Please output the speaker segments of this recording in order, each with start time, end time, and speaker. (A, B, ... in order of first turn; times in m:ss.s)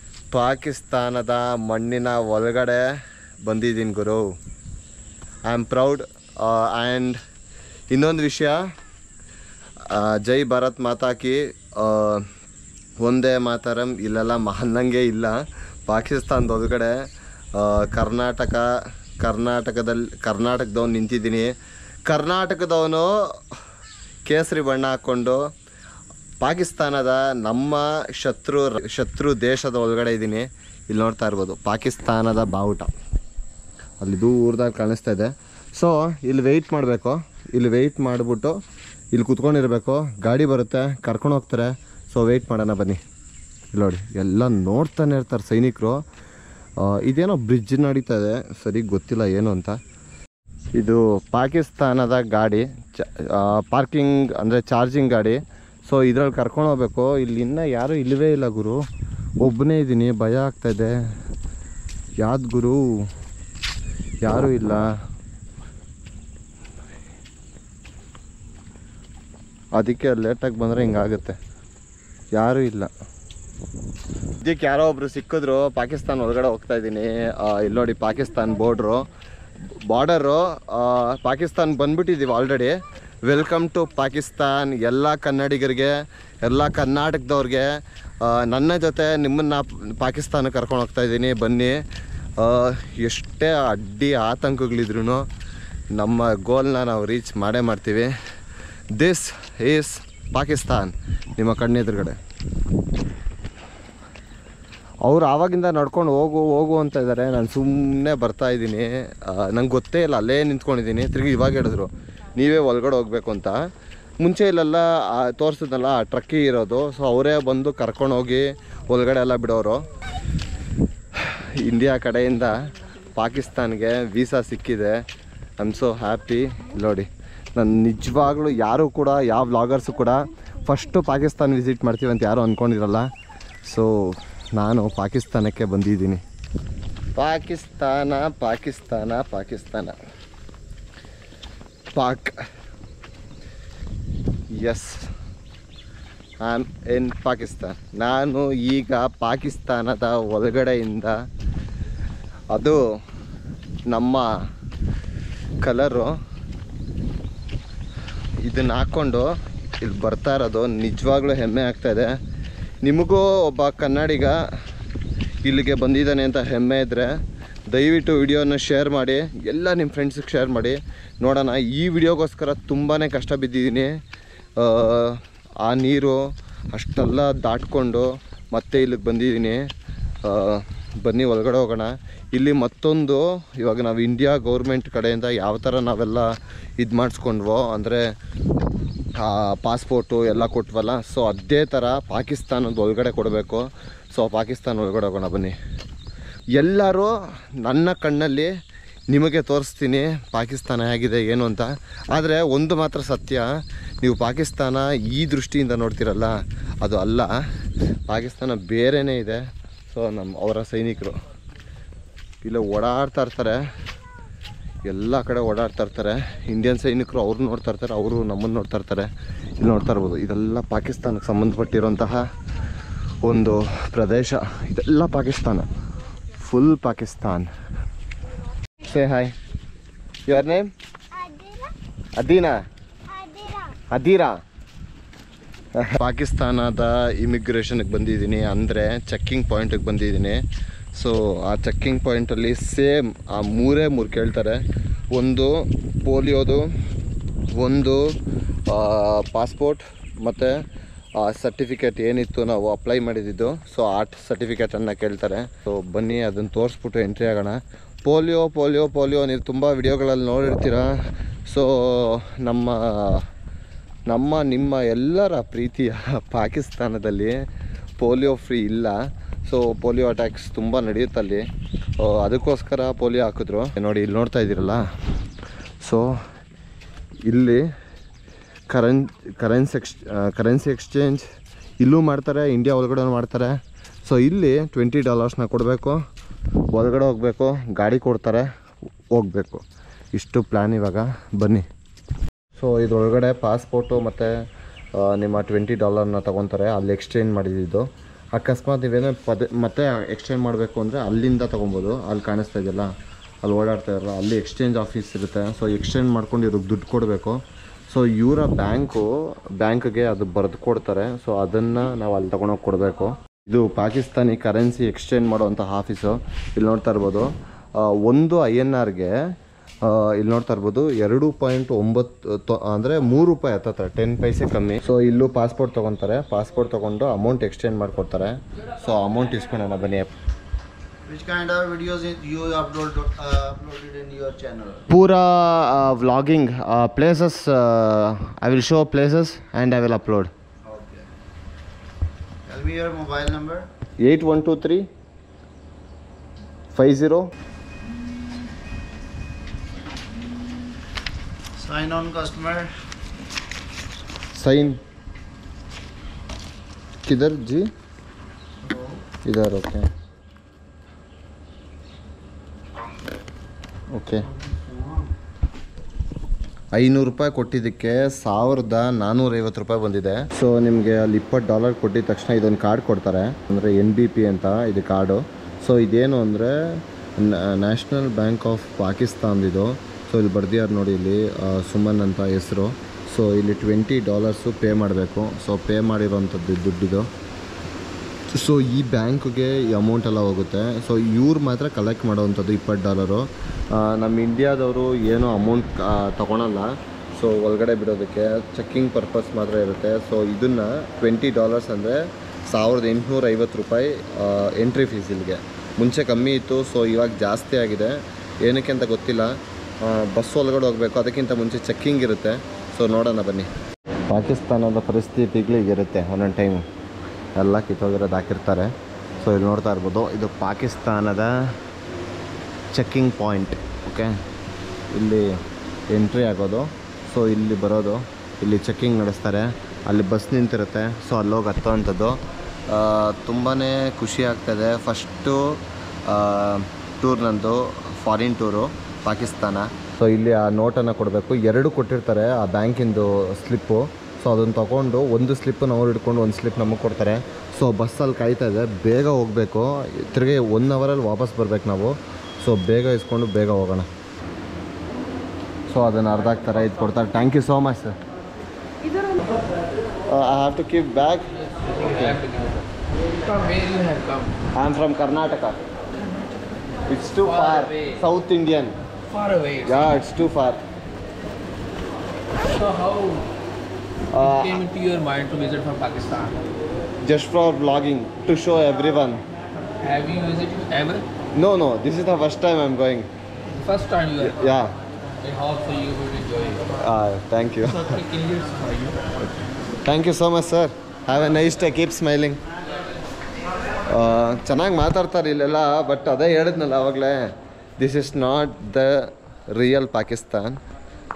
0:00.3-0:04.3 A
0:05.4-0:07.2 A
0:07.9-0:08.7 A
0:09.8-0:12.3 A
0:13.0-0:16.9 A
0:17.5-0:18.7 A
0:19.2-0:21.5 A
0:22.1-0:23.1 A
0:24.3-0:25.4 A
0:26.4-0:32.9 A
0:34.0-0:38.6 A
0:39.1-0:43.0 A
0:43.7-0:46.0 A
0:46.8-0:49.8 A
0:50.7-0:58.8 A
0:59.4-1:01.0 A
1:02.2-1:03.1 A
1:04.2-1:04.9 A
1:09.8-1:11.4 A
1:12.3-1:12.9 A
1:14.4-1:19.1 A
1:19.7-1:27.7 A
1:28.2-1:31.8 A
1:32.4-1:35.2 A
1:36.0-1:38.1 A
1:39.0-1:42.2 A
1:45.0-1:53.6 A
1:54.2-1:59.8 A
2:01.2-2:02.5 A
2:03.2-2:05.0 A
2:05.6-2:13.1 A
2:13.6-2:16.2 A
2:17.2-2:20.0 A
2:21.9-2:22.4 A
2:24.5-2:25.1 A
2:26.4-2:31.2 A
2:32.5-2:32.8 A
2:33.9-2:34.3 A
2:35.6-2:36.1 A
2:38.4-2:39.3 A
2:39.8-2:42.2 A
2:42.8-2:44.4 A
2:45.4-2:47.2 A
2:47.7-2:54.0 A
2:54.6-2:59.7 A
3:00.2-3:08.1 A
3:09.2-3:15.6 A
3:16.5-3:18.5 A
3:19.1-3:23.5 A
3:24.0-3:27.3 A
3:28.1-3:31.2 A
3:32.4-3:33.6 A
3:34.8-3:42.2 A
3:43.2-3:45.7 A
3:46.4-3:47.5 A
3:48.8-3:49.3 A
3:50.3-3:50.7 A
3:52.2-3:52.6 A
3:53.8-3:54.4 A
3:55.8-4:06.7 A
4:07.5-4:08.0 A
4:08.7-4:10.5 A
4:11.2-4:20.9 A
4:21.5-4:23.2 A
4:24.1-4:27.4 A
4:28.0-4:31.4 A
4:32.0-4:34.8 A
4:35.8-4:36.1 A
4:37.3-4:37.7 A
4:38.7-4:41.2 A
4:41.8-4:46.0 A
4:46.7-4:48.5 A
4:49.1-4:51.6 A
4:52.6-4:54.4 A
4:55.0-5:02.9 A
5:03.4-5:07.4 A
5:07.9-5:19.2 A
5:19.8-5:30.1 A
5:31.1-5:34.8 B
5:34.9-5:40.3 A
5:40.7-5:41.0 B
5:42.5-5:43.7 B
5:44.0-5:44.9 A
5:46.7-5:47.3 A
5:51.6-5:52.7 B
5:54.3-5:54.8 A
5:57.0-5:57.7 A
5:59.2-5:59.9 A
6:03.9-6:04.2 A
6:06.7-6:27.1 A
6:28.3-6:53.5 A
6:54.1-6:56.6 A
6:57.4-7:01.6 A
7:02.7-7:04.2 A
7:04.9-7:33.9 A
7:35.7-7:37.9 A
7:40.1-7:42.2 A
7:41.6-7:42.6 C
7:43.2-7:44.4 C
7:44.5-7:45.6 A
7:46.9-7:48.8 A
7:47.3-7:47.9 C
7:49.1-7:50.0 C
7:49.6-7:50.6 A
7:52.4-7:53.3 C
7:54.1-7:54.6 A
7:54.2-7:56.4 C
7:57.0-7:59.2 A
7:59.8-8:01.1 C
8:01.4-8:03.1 A
8:03.6-8:04.4 C
8:04.2-8:04.8 A
8:05.2-8:06.7 C
8:06.7-8:08.0 A
8:07.8-8:09.2 C
8:09.7-8:12.4 A
8:13.9-8:20.6 A